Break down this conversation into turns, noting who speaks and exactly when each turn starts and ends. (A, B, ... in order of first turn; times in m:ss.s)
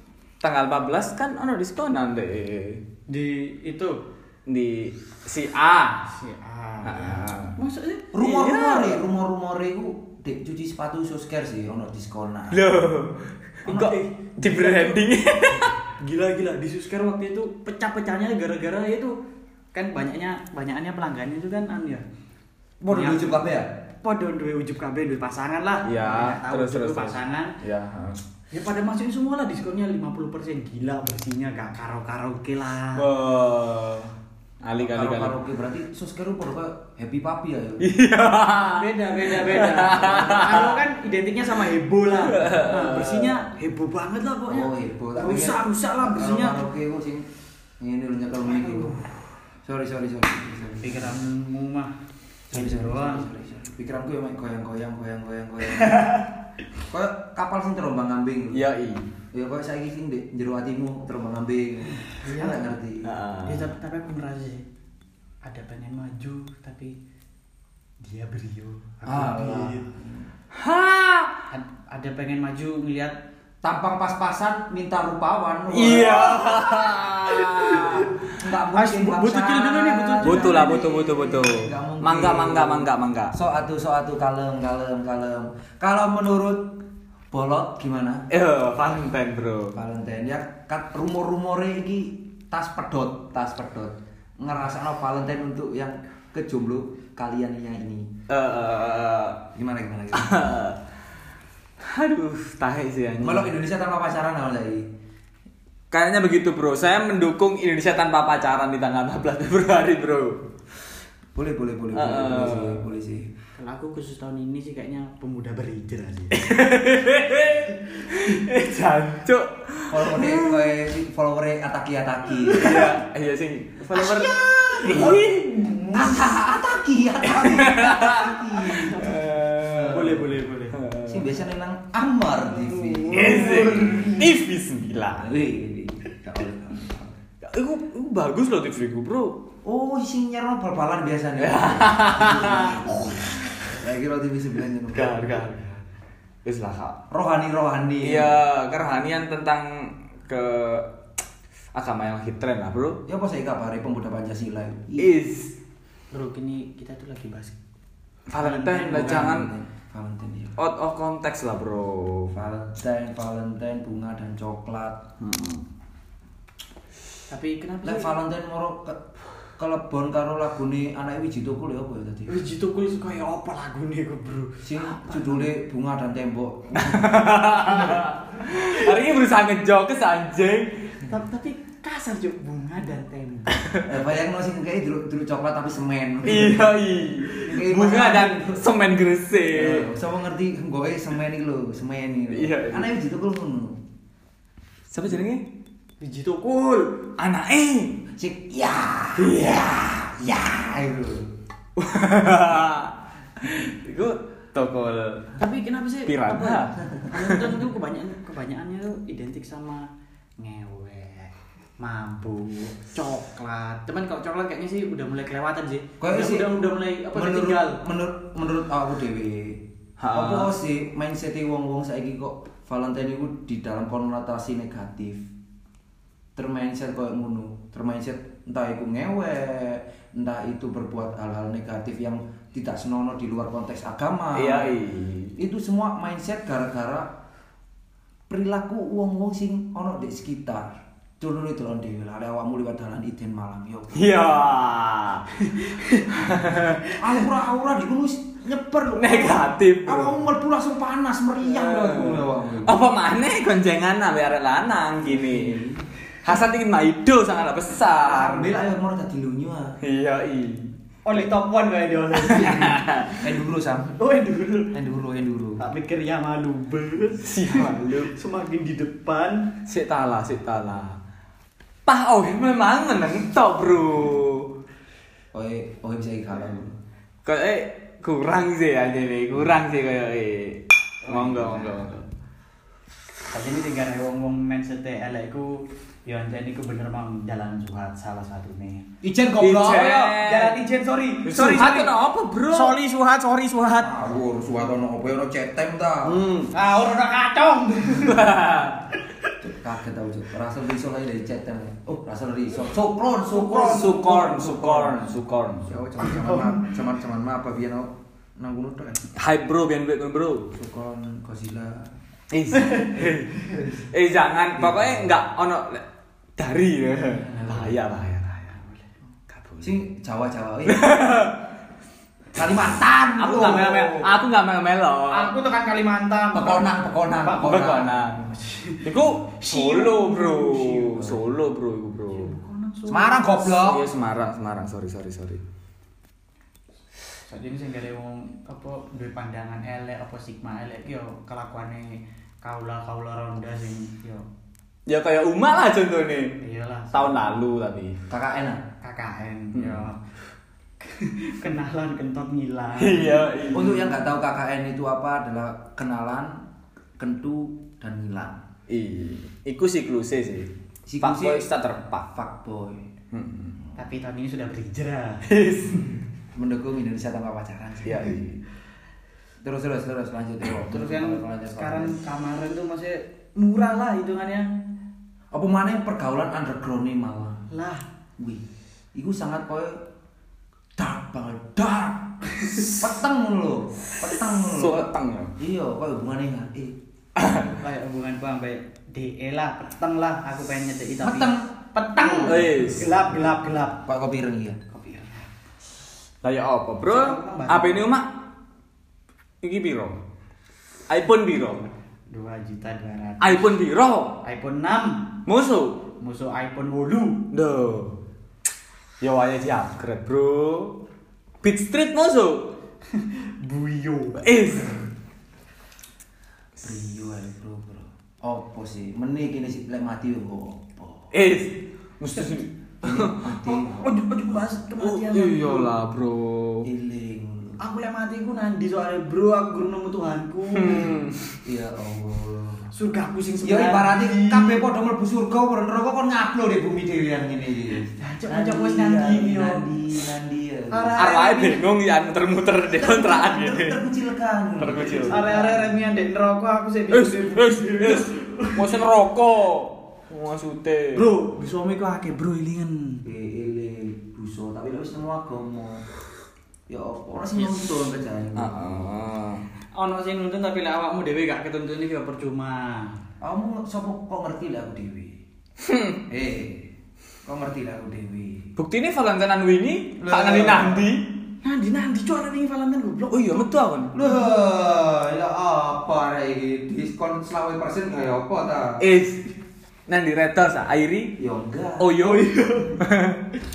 0:00.4-0:02.8 A
0:03.1-0:04.0 B
0:04.5-0:06.0 A
0:06.1-0:08.1 B
0:06.8-0:07.6 A
0:08.1-0:12.7 C
0:08.2-0:09.0 A
0:12.5-0:15.7 A
0:13.6-0:15.0 B
0:16.0-0:19.1 B
0:19.7-0:22.0 B
0:22.8-0:23.7 C
0:22.9-0:23.3 B
0:24.0-0:27.5 B
0:25.8-0:28.2 A
0:28.5-0:33.1 B
0:33.0-0:34.1 A
0:34.6-0:35.4 A
0:34.8-0:37.9 C
0:37.8-0:40.8 A
0:38.7-0:46.6 B
0:42.2-0:43.4 A
0:44.5-0:47.3 C
0:47.8-0:49.0 C
0:48.6-0:48.9 B
0:49.6-0:51.2 C
0:50.8-0:52.0 B
0:52.5-0:56.1 C
0:52.5-0:53.3 B
0:55.8-0:56.1 A
0:56.9-0:58.6 C
0:58.5-0:59.1 A
0:59.3-1:03.1 C
1:02.1-1:02.6 B
1:03.0-1:03.7 A
1:03.5-1:04.6 B
1:05.4-1:07.0 B
1:08.0-1:09.9 B
1:09.1-1:10.0 C
1:10.5-1:11.5 A
1:11.5-1:13.2 B
1:13.6-1:16.7 C
1:15.7-1:18.1 A
1:17.4-1:18.1 B
1:18.4-1:28.3 C
1:18.7-1:20.8 B
1:20.2-1:23.4 A
1:28.3-1:29.8 A
1:29.8-1:38.1 C
1:38.3-1:39.4 A
1:39.5-1:40.4 C
1:40.1-1:40.8 A
1:41.8-1:43.5 A
1:43.2-1:44.8 C
1:45.9-1:50.4 A
1:51.3-1:53.3 C
1:51.9-1:52.9 A
1:53.6-1:56.4 B
1:56.3-2:00.7 A
1:59.9-2:02.9 C
2:02.5-2:06.3 A
2:03.9-2:09.2 C
2:07.3-2:10.2 A
2:09.8-2:10.8 B
2:10.7-2:11.3 A
2:11.1-2:14.3 C
2:13.1-2:15.3 A
2:15.2-2:17.2 C
2:17.4-2:19.4 A
2:19.6-2:25.4 C
2:21.4-2:23.2 A
2:24.9-2:25.8 A
2:26.4-2:27.0 A
2:27.1-2:28.3 C
2:28.0-2:30.9 A
2:31.7-2:33.0 A
2:33.1-2:35.1 C
2:35.0-2:35.6 A
2:36.1-2:37.5 B
2:38.3-2:39.5 A
2:38.4-2:39.4 B
2:38.9-2:40.6 C
2:40.6-2:42.4 A
2:42.3-2:45.0 C
2:45.2-2:45.6 A
2:47.3-2:48.1 B
2:47.8-2:49.0 C
2:49.6-2:52.4 C
2:52.3-2:55.4 B
2:54.6-2:57.1 C
2:56.8-3:00.7 A
3:01.1-3:03.7 B
3:03.8-3:06.8 C
3:06.2-3:09.9 A
3:07.3-3:08.6 C
3:09.5-3:13.8 C
3:12.3-3:12.9 A
3:14.9-3:15.5 A
3:16.0-3:17.1 B
3:17.2-3:18.0 A
3:18.2-3:21.2 C
3:19.2-3:20.3 A
3:21.8-3:25.3 A
3:25.4-3:29.8 B
3:26.1-3:27.6 A
3:30.4-3:37.8 B
3:36.0-3:36.6 C
3:37.1-3:45.2 C
3:40.0-3:40.5 A
3:46.4-3:54.8 C
3:54.3-3:55.4 A
3:55.4-3:57.1 C
3:58.3-4:04.0 C
4:03.9-4:05.3 A
4:05.6-4:06.0 B
4:06.1-4:06.9 A
4:06.9-4:12.7 C
4:09.0-4:10.2 A
4:11.5-4:15.6 A
4:15.1-4:15.8 C
4:16.2-4:18.6 A
4:18.0-4:19.8 C
4:19.8-4:20.7 A
4:21.1-4:22.8 B
4:22.2-4:23.3 A
4:22.3-4:24.0 C
4:24.0-4:24.8 B
4:24.7-4:25.6 C
4:25.6-4:29.5 B
4:27.2-4:28.1 A
4:29.7-4:31.0 A
4:31.9-4:34.5 A
4:35.3-4:36.7 C
4:37.2-4:42.0 A
4:41.1-4:41.9 B
4:43.3-4:48.9 B
4:49.0-4:50.2 C
4:49.4-4:50.6 A
4:49.6-4:51.9 B
4:51.3-4:52.8 A
4:52.5-4:53.9 B
4:53.8-4:56.3 C
4:56.1-4:56.5 A
4:56.5-4:58.3 B
4:58.0-4:58.8 A
4:59.4-5:05.1 C
5:03.3-5:05.7 A
5:05.7-5:09.1 C
5:06.0-5:06.7 B
5:09.2-5:10.5 A
5:10.5-5:11.9 C
5:12.3-5:15.8 A
5:14.6-5:15.0 C
5:16.4-5:18.6 A
5:19.6-5:21.1 C
5:20.7-5:21.4 A
5:22.3-5:24.1 C
5:23.2-5:25.3 A
5:25.1-5:26.7 B
5:26.3-5:28.0 C
5:27.2-5:27.7 B
5:27.3-5:28.3 A
5:28.4-5:31.2 B
5:28.8-5:32.3 A
5:32.1-5:33.4 B
5:32.9-5:33.9 C
5:33.6-5:35.4 A
5:37.3-5:44.2 B
5:44.9-5:46.4 A
5:46.4-5:47.3 B
5:46.9-5:48.0 A
5:48.1-5:48.6 C
5:48.8-5:50.2 B
5:49.6-5:49.8 A
5:50.8-5:53.3 B
5:52.8-5:53.8 A
5:53.5-5:56.4 C
5:57.0-5:58.4 C
5:58.7-6:00.5 A
6:00.9-6:01.5 C
6:01.0-6:02.1 A
6:02.1-6:02.9 C
6:03.1-6:03.6 A
6:03.8-6:05.3 B
6:05.3-6:06.0 A
6:06.4-6:08.1 C
6:07.8-6:08.4 A
6:09.4-6:12.0 C
6:10.6-6:14.5 B
6:15.3-6:17.4 C
6:17.5-6:17.8 B
6:18.2-6:19.8 C
6:20.8-6:26.8 C
6:24.0-6:25.3 A
6:27.2-6:27.5 A
6:27.6-6:33.8 B
6:31.0-6:31.5 C
6:32.2-6:33.0 A
6:33.8-6:34.7 C
6:34.7-6:35.3 B
6:36.2-6:38.1 A
6:36.9-6:37.9 B
6:39.4-6:40.0 A
6:40.9-6:41.7 A
6:42.1-6:43.5 B
6:43.2-6:44.2 A
6:44.2-6:45.2 B
6:45.3-6:45.8 A
6:46.0-6:47.3 B
6:47.3-6:48.0 A
6:49.0-6:50.8 A
6:51.4-6:52.6 A
6:53.0-6:54.3 B
6:54.2-6:54.8 A
6:56.6-7:01.1 C
7:01.1-7:03.2 A
7:02.8-7:04.1 C
7:03.4-7:05.7 B
7:04.8-7:06.7 A
7:06.6-7:07.6 C
7:07.6-7:11.0 B
7:10.5-7:11.2 A
7:11.4-7:12.7 C
7:12.7-7:14.6 B
7:13.4-7:21.2 C
7:18.0-7:19.7 B
7:20.7-7:21.6 B
7:21.0-7:23.8 A
7:22.7-7:25.7 C
7:24.6-7:25.2 A
7:25.0-7:28.7 B
7:26.9-7:31.1 A
7:31.0-7:33.0 B
7:33.0-7:35.8 C
7:36.7-7:38.6 C
7:38.4-7:39.4 A
7:39.7-7:42.9 B
7:43.2-7:45.2 C
7:45.6-7:46.0 A
7:46.1-7:46.7 C
7:47.3-7:48.5 C
7:48.6-7:51.1 A
7:50.0-7:50.9 C
7:51.4-7:53.5 B
7:53.1-7:54.0 A
7:53.9-7:58.8 C
7:58.8-7:59.3 A
7:59.9-8:01.2 A
8:01.2-8:02.2 C
8:01.8-8:03.2 A
8:02.3-8:02.8 B